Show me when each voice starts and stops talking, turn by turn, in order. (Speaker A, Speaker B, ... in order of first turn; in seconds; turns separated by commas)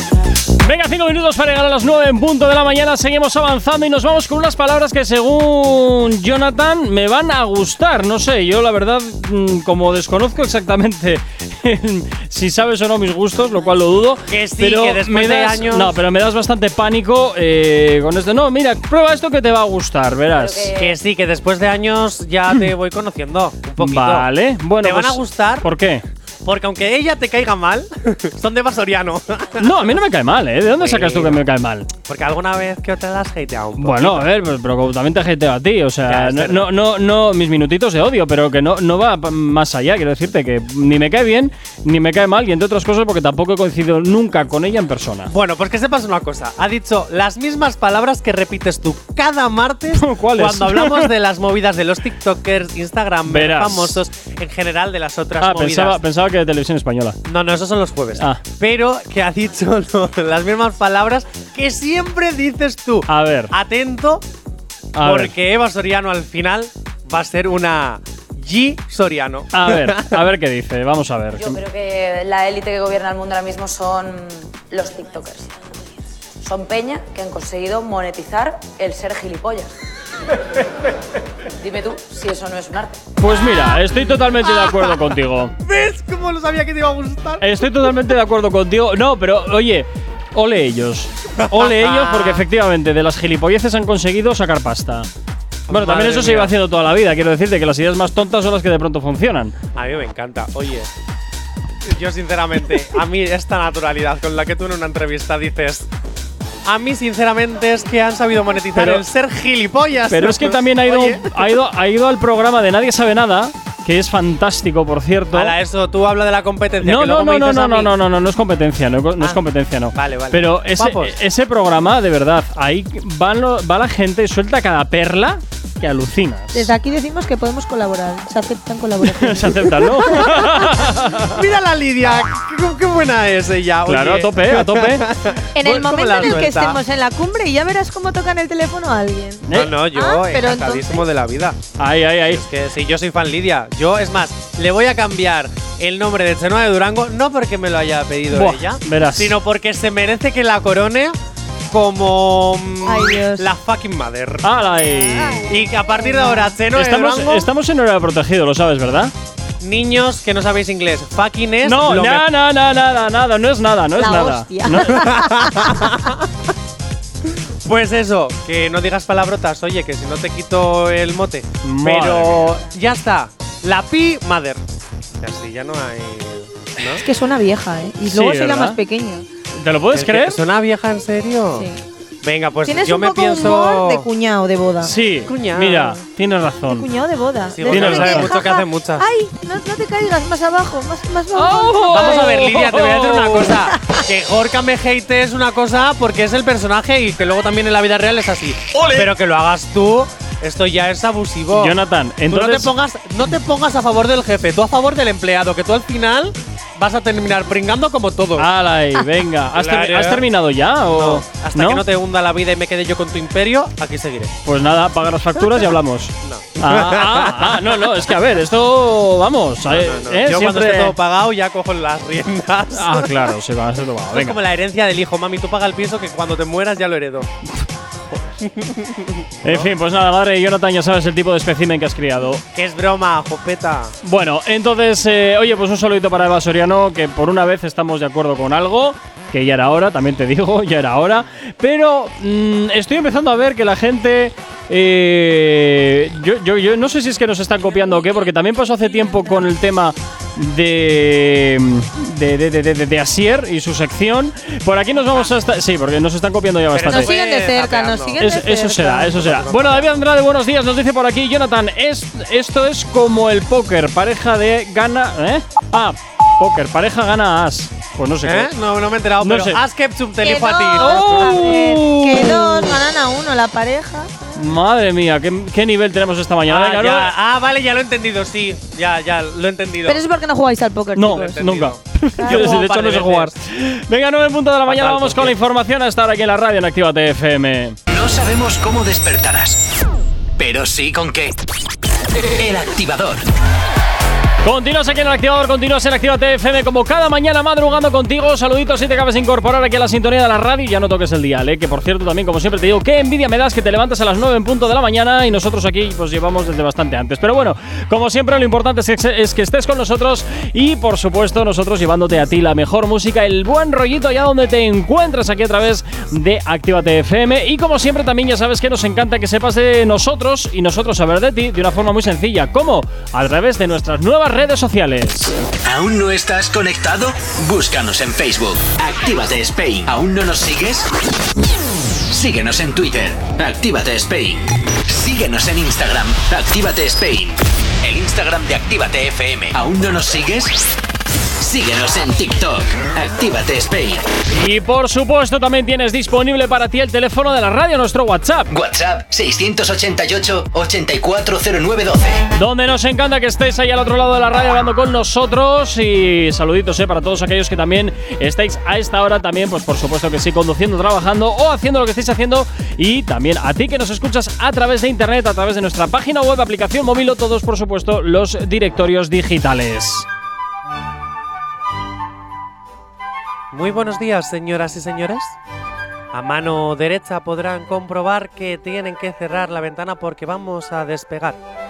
Speaker A: 0.6-20.7, Speaker B: 14.3-16.0, Speaker C: 20.4-20.9, Speaker B: 20.8-24.3, Speaker A: 23.8-26.0, Speaker B: 24.8-25.7, Speaker B: 26.4-29.7, Speaker A: 29.6-31.9, Speaker B: 30.8-31.4, Speaker B: 32.1-34.3, Speaker A: 33.8-45.3, Speaker B: 36.0-36.7, Speaker B: 45.3-56.0, Speaker A: 49.9-51.1, Speaker A: 53.3-54.0, Speaker A: 55.4-57.2, Speaker B: 57.2-64.2, Speaker A: 63.1-63.5, Speaker A: 64.9-65.3, Speaker B: 65.0-70.2, Speaker A: 69.5-71.6, Speaker C: 71.4-75.6, Speaker C: 76.4-79.7, Speaker C: 81.6-83.0, Speaker A: 83.2-85.5, Speaker B: 85.6-87.5, Speaker A: 87.4-95.1, Speaker B: 91.4-92.5, Speaker B: 95.7-96.5, Speaker A: 95.7-99.5, Speaker B: 99.8-100.9, Speaker B: 101.8-105.9, Speaker B: 106.6-111.4, Speaker A: 108.8-109.0, Speaker A: 110.1-115.5, Speaker B: 115.3-117.9, Speaker A: 116.8-126.7, Speaker B: 119.9-121.2, Speaker D: 126.5-130.9, Speaker A: 129.0-131.4, Speaker B: 131.3-136.8, Speaker A: 133.9-135.1, Speaker D: 135.5-141.0, Speaker A: 139.5-139.8, Speaker B: 139.5-141.6, Speaker A: 141.8-142.4, Speaker B: 142.2-151.2, Speaker A: 148.3-149.4, Speaker B: 151.7-154.5, Speaker D: 152.8-153.4, Speaker A: 154.4-155.6, Speaker D: 155.1-156.5, Speaker B: 155.5-157.5, Speaker A: 156.7-159.1, Speaker B: 159.6-162.3, Speaker A: 161.6-165.3, Speaker D: 163.9-165.9, Speaker B: 164.9-166.2, Speaker B: 167.6-174.6, Speaker A: 171.6-172.6, Speaker B: 175.2-177.0, Speaker D: 177.0-179.2, Speaker A: 178.0-178.8, Speaker A: 179.6-180.4, Speaker B: 179.9-181.7, Speaker B: 182.2-184.1, Speaker D: 182.7-184.9, Speaker A: 184.8-186.9, Speaker B: 185.2-186.0, Speaker D: 186.7-192.1, Speaker B: 187.5-189.1, Speaker A: 187.7-188.3, Speaker A: 191.3-193.6, Speaker B: 191.9-201.8, Speaker A: 201.5-202.7, Speaker B: 202.3-208.5, Speaker A: 208.4-211.8, Speaker B: 209.5-210.2, Speaker B: 210.9-214.3, Speaker A: 214.4-220.9, Speaker B: 216.2-217.7, Speaker B: 219.6-223.3, Speaker A: 222.7-224.4, Speaker B: 224.1-227.3, Speaker B: 228.4-229.7, Speaker A: 229.4-232.4, Speaker B: 232.5-233.9, Speaker A: 234.0-257.1, Speaker B: 256.7-258.2, Speaker D: 256.9-259.3, Speaker A: 258.2-268.5, Speaker B: 259.1-259.9, Speaker B: 268.2-271.3, Speaker A: 269.2-269.6, Speaker D: 270.2-274.1, Speaker A: 270.8-272.8, Speaker A: 274.4-277.1, Speaker B: 276.5-280.0, Speaker D: 279.9-281.4, Speaker A: 280.9-287.8, Speaker B: 281.1-283.4, Speaker D: 282.2-282.6, Speaker B: 284.6-285.4, Speaker E: 287.9-289.6, Speaker E: 290.4-291.4, Speaker E: 292.2-293.2, Speaker A: 294.4-325.3, Speaker E: 325.6-330.9, Speaker E: 332.1-340.7, Speaker E: 341.4-344.1, Speaker A: 344.3-348.5, Speaker E: 348.5-352.3, Speaker A: 352.4-370.1, Speaker B: 373.5-375.4, Speaker B: 376.1-381.4